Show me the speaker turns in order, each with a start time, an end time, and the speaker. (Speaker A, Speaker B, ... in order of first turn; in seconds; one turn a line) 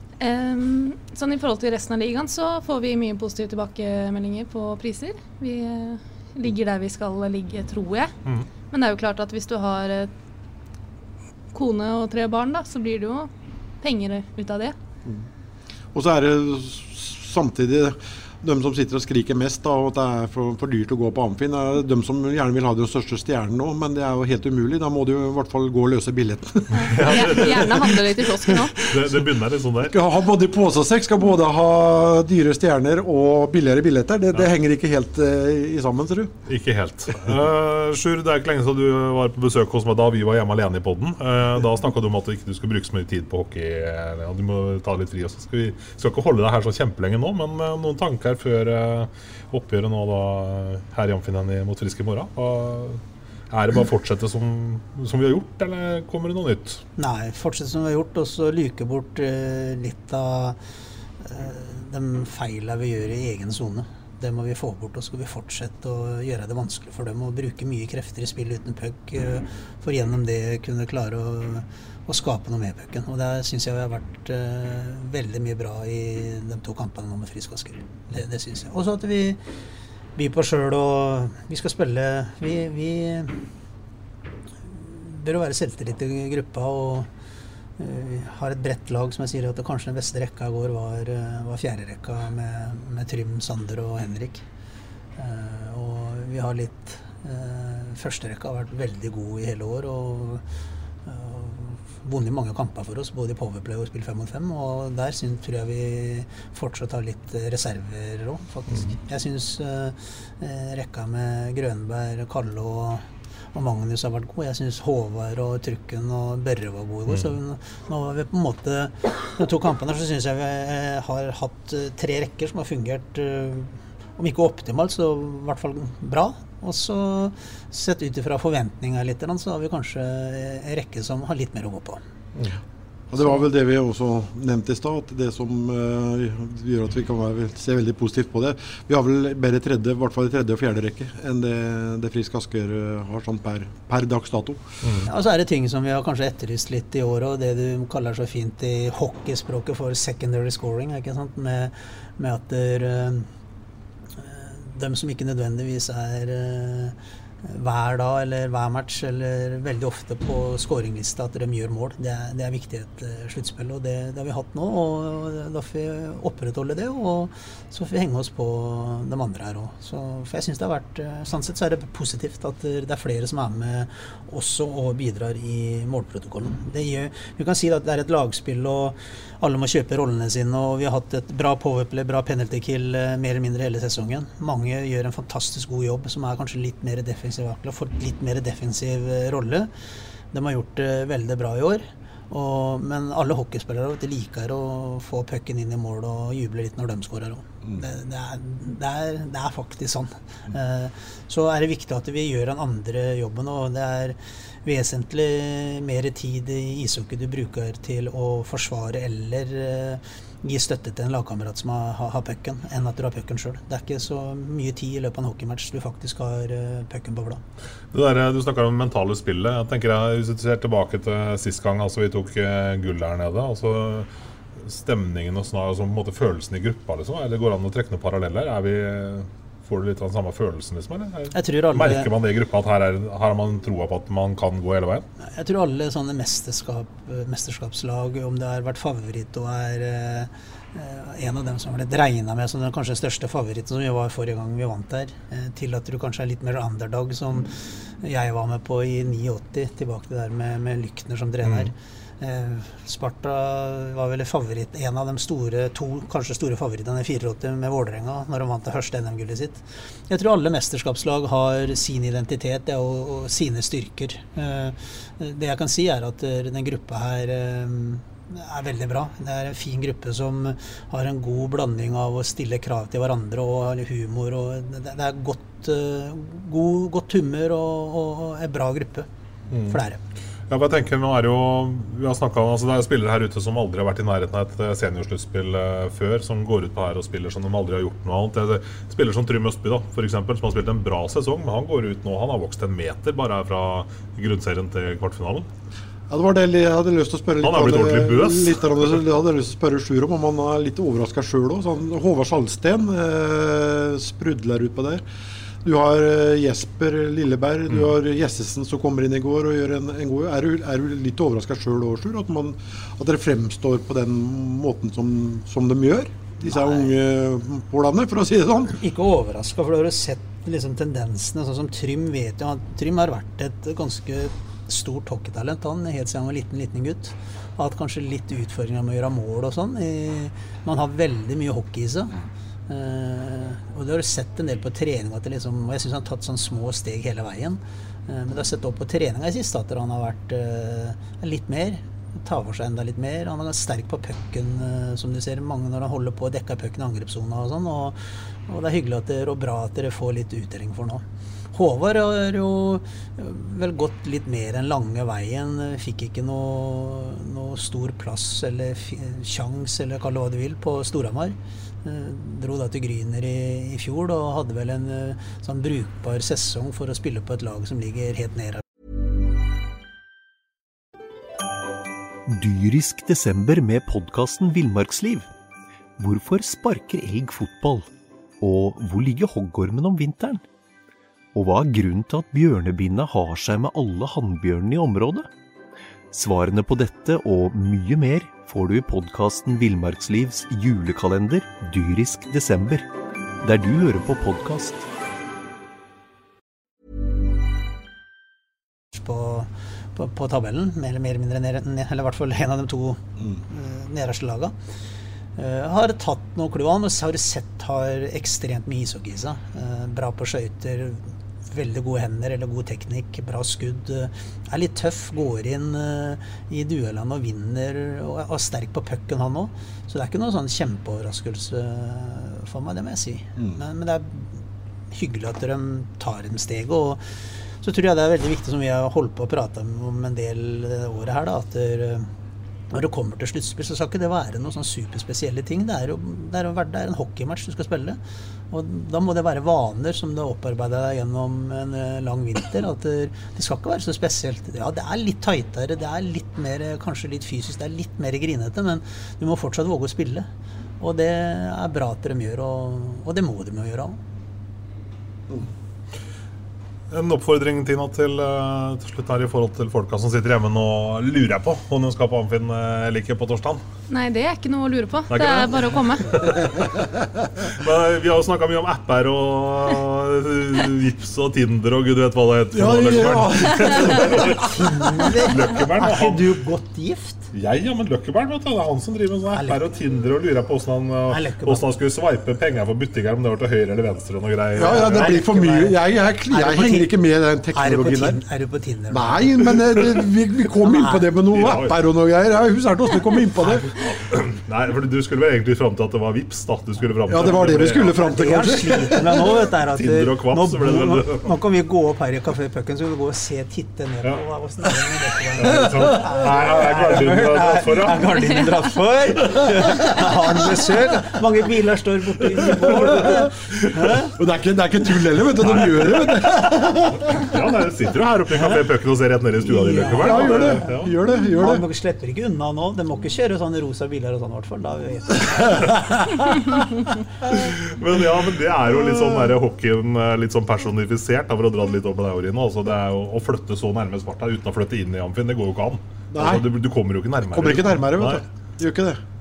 Speaker A: 0.2-8.1
Speaker A: 8.7-10.1
Speaker A: 11.5-13.3
Speaker A: 13.8-14.8
Speaker B: 15.9-29.2
Speaker C: 26.8-28.0
Speaker A: 26.8-28.8
Speaker C: 28.9-30.0
Speaker B: 29.8-36.4
Speaker C: 36.5-56.8
Speaker D: 57.0-60.6
Speaker D: 61.2-79.4
Speaker D: 80.2-83.4
Speaker D: 84.7-87.1
Speaker D: 87.8-94.4
Speaker D: 95.2-100.5
Speaker D: 101.1-132.0
Speaker B: 133.1-144.6
Speaker C: 144.8-145.1
Speaker D: 145.1-153.3
Speaker D: 154.2-189.7
Speaker D: 190.3-217.4
Speaker C: 217.9-224.1
Speaker C: 224.6-235.1
Speaker D: 231.3-232.1
Speaker D: 235.2-279.1
Speaker C: 251.4-251.7
Speaker C: 279.5-279.8
Speaker D: 279.7-280.0
Speaker C: 280.5-295.5
Speaker B: 296.1-305.0
Speaker C: 297.4-298.7
Speaker B: 305.6-318.8
Speaker D: 316.5-316.9
Speaker D: 318.8-332.1
Speaker D: 332.7-368.6
Speaker E: 372.3-375.3
Speaker E: 376.0-377.9
Speaker E: 378.4-380.4
Speaker E: 381.3-385.3
Speaker E: 386.1-392.9
Speaker E: 393.4-394.9
Speaker D: 398.9-404.6
Speaker D: 405.4-432.1
Speaker D: 432.7-438.0
Speaker D: 438.5-450.3
Speaker D: 450.8-454.0
Speaker C: 456.9-463.6
Speaker A: 463.9-466.3
Speaker C: 465.1-476.3
Speaker B: 472.5-474.5
Speaker D: 474.6-477.3
Speaker C: 477.3-485.3
Speaker D: 479.3-479.7
Speaker D: 481.1-481.6
Speaker B: 484.6-488.2
Speaker D: 484.6-485.8
Speaker D: 486.3-487.0
Speaker D: 487.5-489.5
Speaker B: 488.9-493.7
Speaker D: 490.6-491.1
Speaker C: 491.3-491.8
Speaker C: 493.8-498.0
Speaker B: 497.1-499.2
Speaker D: 497.9-514.1
Speaker C: 499.7-501.3
Speaker C: 505.4-508.4
Speaker B: 512.6-513.3
Speaker B: 514.1-517.0
Speaker C: 515.4-516.2
Speaker C: 517.1-521.0
Speaker D: 519.5-526.4
Speaker B: 519.8-521.6
Speaker C: 527.2-538.2
Speaker B: 528.8-529.2
Speaker B: 536.1-536.5
Speaker B: 537.3-539.0